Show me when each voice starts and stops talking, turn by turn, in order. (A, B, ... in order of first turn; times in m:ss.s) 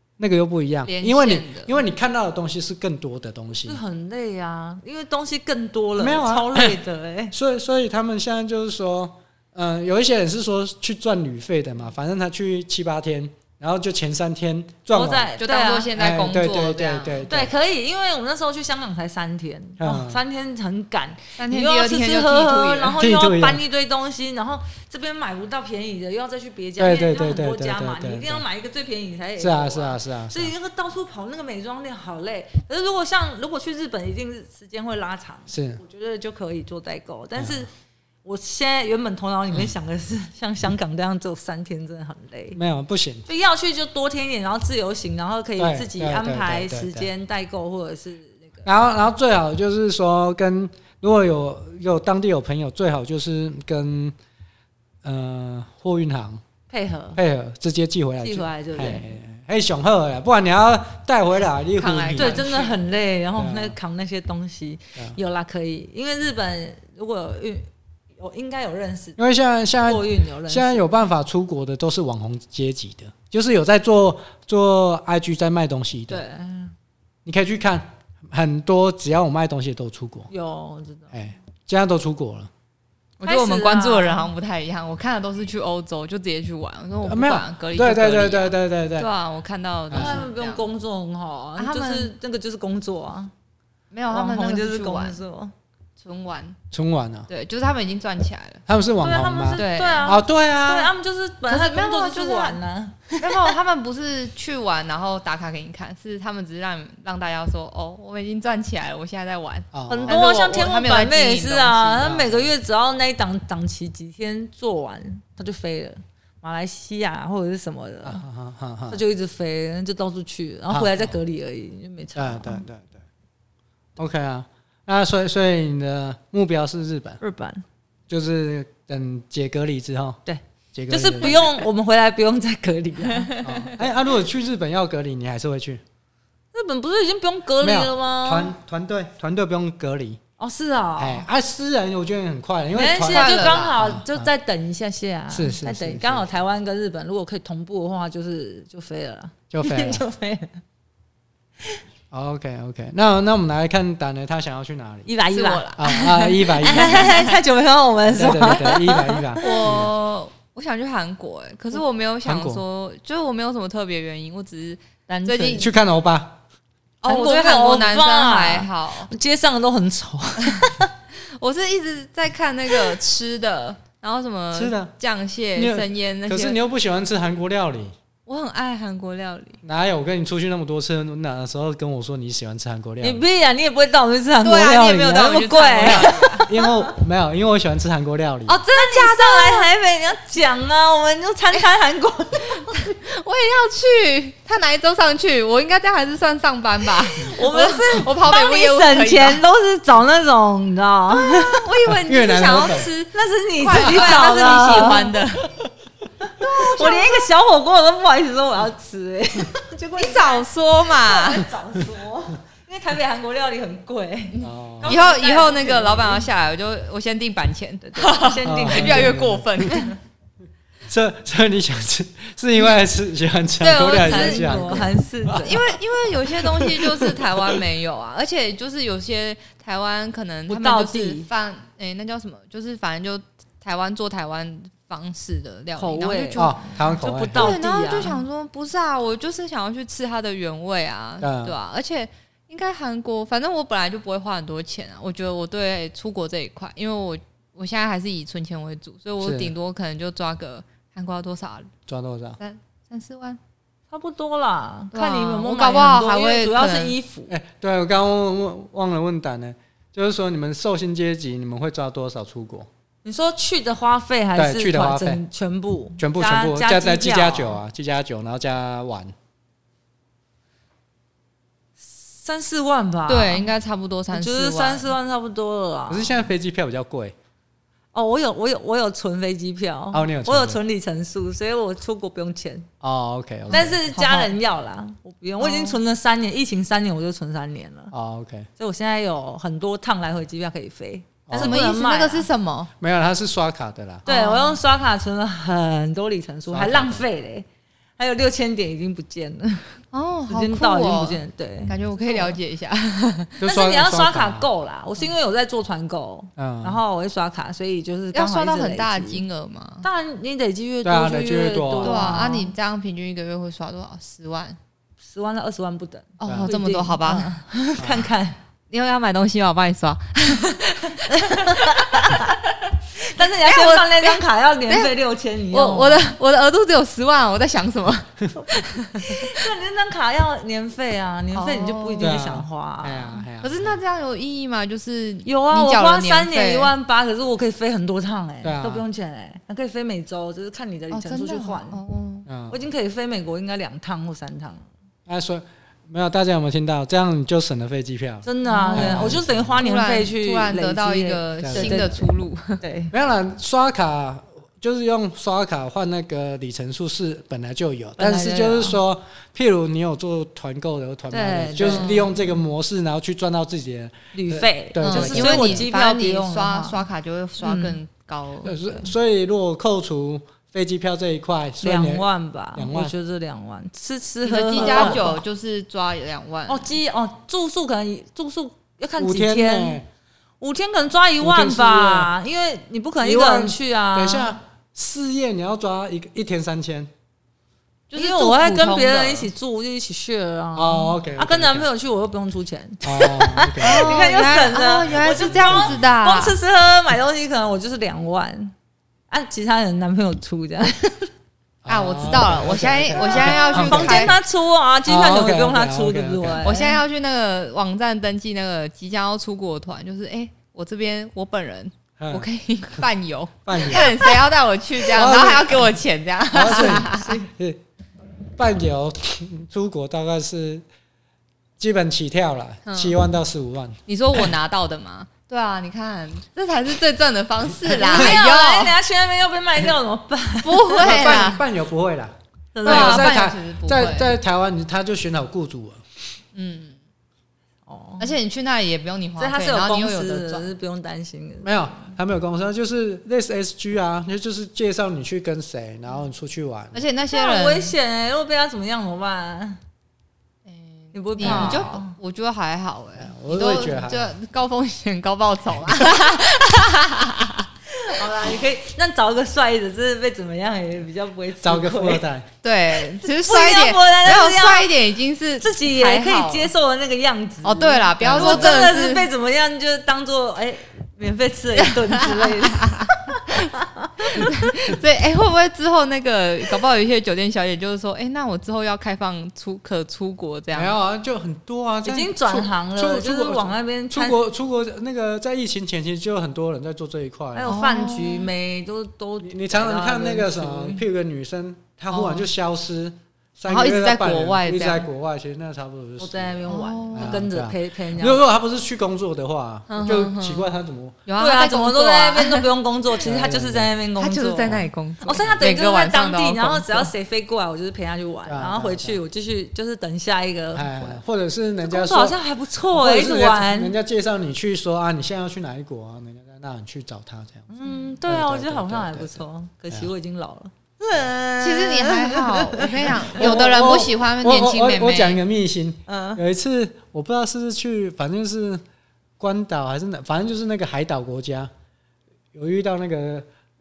0:00.2-0:03.8 A
0:00.8-0:01.7 B
0:03.6-0:07.3 C
0:06.0-0:06.8 A
0:07.3-0:15.3 A
0:14.9-0:15.9 C
0:15.4-0:17.3 B
0:15.9-0:17.5 A
0:17.2-0:37.7 C
0:19.8-0:20.2 A
0:21.4-0:23.0 B
0:23.0-0:23.6 A
0:26.8-0:28.4 A
0:29.4-0:30.5 A
0:35.5-0:35.8 A
0:37.4-0:37.6 A
0:38.2-0:42.6 C
0:42.5-0:43.2 A
0:43.3-0:48.6 C
0:45.6-0:47.1 A
0:48.6-0:54.1 A
0:55.0-0:56.4 A
0:56.7-0:57.2 C
0:57.2-1:02.5 A
0:58.2-0:59.1 C
1:01.8-1:02.7 B
1:02.2-1:09.2 C
1:03.4-1:03.8 A
1:09.2-1:16.2 A
1:09.8-1:10.9 C
1:16.1-1:16.7 C
1:17.2-1:20.3 A
1:20.3-1:21.1 C
1:21.1-1:22.5 A
1:23.2-1:24.3 C
1:23.2-1:30.6 B
1:27.0-1:29.1 A
1:29.9-1:30.2 A
1:29.9-1:33.3 C
1:31.6-1:32.1 B
1:33.9-1:35.2 B
1:34.1-1:35.5 C
1:36.0-1:36.6 B
1:36.7-1:37.3 A
1:37.3-1:38.6 B
1:38.7-1:40.9 A
1:39.0-1:43.5 C
1:39.6-1:40.2 B
1:41.5-1:42.6 B
1:43.2-1:52.1 B
1:49.7-1:50.2 A
1:49.9-1:58.2 C
1:52.0-1:52.5 A
1:58.0-1:59.0 A
1:58.9-2:02.6 C
2:00.7-2:01.1 A
2:02.2-2:03.0 A
2:04.0-2:07.2 A
2:07.2-2:07.6 C
2:08.1-2:10.2 A
2:10.2-2:13.8 C
2:10.7-2:11.6 A
2:13.4-2:15.8 A
2:16.5-2:18.5 C
2:17.6-2:20.2 A
2:20.4-2:21.2 C
2:21.0-2:24.3 A
2:22.7-2:30.6 C
2:23.0-2:23.7 B
2:25.3-2:26.3 A
2:29.5-2:30.0 A
2:32.1-2:35.1 A
2:35.0-2:39.7 C
2:35.3-2:37.4 B
2:35.8-2:37.0 A
2:38.1-2:39.9 A
2:39.4-2:45.7 B
2:42.2-2:42.6 A
2:45.1-2:45.7 C
2:45.5-2:46.4 A
2:47.0-2:49.1 B
2:47.0-2:50.9 C
2:51.2-2:56.6 B
2:54.5-2:54.9 A
2:55.6-2:57.9 A
2:58.3-2:59.6 B
2:59.6-3:03.2 A
3:03.0-3:06.9 C
3:04.4-3:06.5 B
3:05.8-3:08.6 A
3:08.5-3:12.8 C
3:08.7-3:09.7 B
3:12.7-3:19.4 B
3:17.2-3:21.9 C
3:21.1-3:25.5 B
3:21.9-3:22.9 A
3:23.1-3:25.1 C
3:23.8-3:24.1 A
3:26.4-3:36.3 C
3:26.4-3:27.3 B
3:30.0-3:31.5 B
3:34.4-3:34.9 A
3:34.8-3:40.0 B
3:37.8-3:39.2 C
3:38.4-3:39.9 A
3:40.9-3:45.4 A
3:43.6-3:45.6 C
3:44.0-3:44.5 B
3:45.4-3:56.6 B
3:46.4-3:47.6 A
3:50.5-3:51.3 C
3:55.8-3:58.2 C
3:56.4-3:57.6 A
3:57.3-4:11.7 B
4:01.2-4:01.6 A
4:09.2-4:09.5 A
4:11.9-4:12.4 A
4:12.4-4:13.4 B
4:13.9-4:17.3 C
4:14.9-4:17.0 B
4:17.3-4:22.7 A
4:23.0-4:27.6 C
4:24.3-4:25.2 A
4:26.0-4:29.1 A
4:31.8-4:33.5 C
4:33.1-4:34.9 B
4:34.1-4:36.2 C
4:35.9-4:37.1 A
4:37.9-4:42.7 C
4:39.9-4:40.6 A
4:42.8-4:43.8 A
4:43.5-4:44.3 B
4:43.5-4:47.9 C
4:45.4-4:45.8 B
4:47.9-4:48.5 A
4:48.6-4:52.3 C
4:51.3-4:51.6 A
4:51.3-4:52.7 B
4:52.8-4:54.1 A
4:54.0-4:57.4 C
4:54.1-4:54.6 B
4:56.5-4:57.0 A
4:58.0-5:02.4 C
4:59.9-5:03.4 B
5:03.4-5:04.5 A
5:03.4-5:09.2 C
5:06.4-5:06.8 A
5:08.1-5:09.8 B
5:09.8-5:12.5 C
5:10.8-5:12.2 A
5:11.8-5:14.6 B
5:15.0-5:18.4 C
5:16.2-5:17.4 B
5:16.2-5:16.5 A
5:17.8-5:18.1 A
5:18.7-5:22.3 B
5:21.0-5:22.4 C
5:22.9-5:26.1 C
5:23.2-5:24.9 B
5:25.5-5:29.4 B
5:29.0-5:33.2 C
5:31.3-5:32.2 B
5:32.0-5:33.8 A
5:33.4-5:36.7 B
5:35.2-5:41.8 C
5:38.4-5:38.8 A
5:40.9-5:42.3 B
5:42.3-5:42.5 A
5:42.5-5:44.7 C
5:45.1-5:49.6 A
5:48.2-5:52.1 C
5:48.5-5:52.6 B
5:51.4-5:51.9 A
5:52.6-5:52.9 C
5:52.9-6:05.7 A
5:58.0-5:58.8 C
6:01.1-6:02.1 C
6:01.6-6:02.1 B
6:04.1-6:06.8 C
6:04.8-6:08.6 B
6:07.4-6:07.8 C
6:08.4-6:12.9 A
6:11.6-6:15.2 C
6:14.2-6:16.7 B
6:14.6-6:15.1 A
6:16.5-6:19.8 C
6:19.0-6:19.9 A
6:20.4-6:24.4 C
6:21.2-6:22.1 A
6:23.0-6:26.9 A
6:27.9-6:29.3 B
6:27.9-6:38.5 C
6:30.5-6:31.7 A
6:32.8-6:34.0 A
6:33.6-6:36.4 B
6:35.0-6:35.8 A
6:39.1-6:41.1 C
6:41.6-6:44.2 A
6:41.7-6:44.2 B
6:43.1-6:46.8 C
6:44.8-6:46.4 A
6:46.4-6:57.2 B
6:52.0-6:52.3 A
6:53.4-6:54.0 A
6:54.9-6:55.7 A
6:56.3-6:57.6 A
6:56.4-6:57.3 C
6:58.4-7:00.6 A
7:01.6-7:04.3 A
7:02.7-7:03.0 B
7:03.9-7:08.8 B
7:07.6-7:11.2 C
7:10.4-7:11.4 B
7:10.8-7:15.8 A
7:12.5-7:13.2 C
7:12.6-7:14.1 B
7:16.3-7:16.8 B
7:17.7-7:18.2 C
7:18.0-7:20.5 B
7:19.2-7:21.9 C
7:21.4-7:26.8 A
7:26.7-7:27.7 B
7:27.1-7:29.6 C
7:30.5-7:37.5 B
7:30.9-7:32.0 C
7:31.2-7:31.7 A
7:33.0-7:34.1 A
7:37.7-7:42.0 C
7:41.4-7:42.3 A
7:42.4-7:46.5 B
7:42.8-7:44.7 C
7:45.4-7:54.3 C
7:47.4-7:49.1 B
7:48.0-7:48.5 A
7:51.8-7:53.3 B
7:54.1-8:00.7 B
8:00.5-8:07.5 A
8:01.8-8:04.2 C
8:07.3-8:10.8 C
8:07.4-8:08.3 B
8:09.2-8:21.0 A
8:11.9-8:12.3 B
8:13.5-8:14.9 B
8:16.0-8:18.2 C
8:16.5-8:17.2 B
8:19.7-8:20.5 B
8:21.0-8:22.5 B
8:21.2-8:31.0 C
8:23.0-8:23.7 A
8:24.0-8:26.9 B
8:28.3-8:29.0 A
8:30.5-8:32.2 A
8:31.6-8:33.8 C
8:32.7-8:37.5 A
8:37.5-8:43.3 C
8:38.0-8:39.9 A
8:41.4-8:45.2 B
8:43.1-8:48.6 A
8:45.9-8:46.2 C
8:49.2-8:51.5 A
8:52.3-8:53.3 A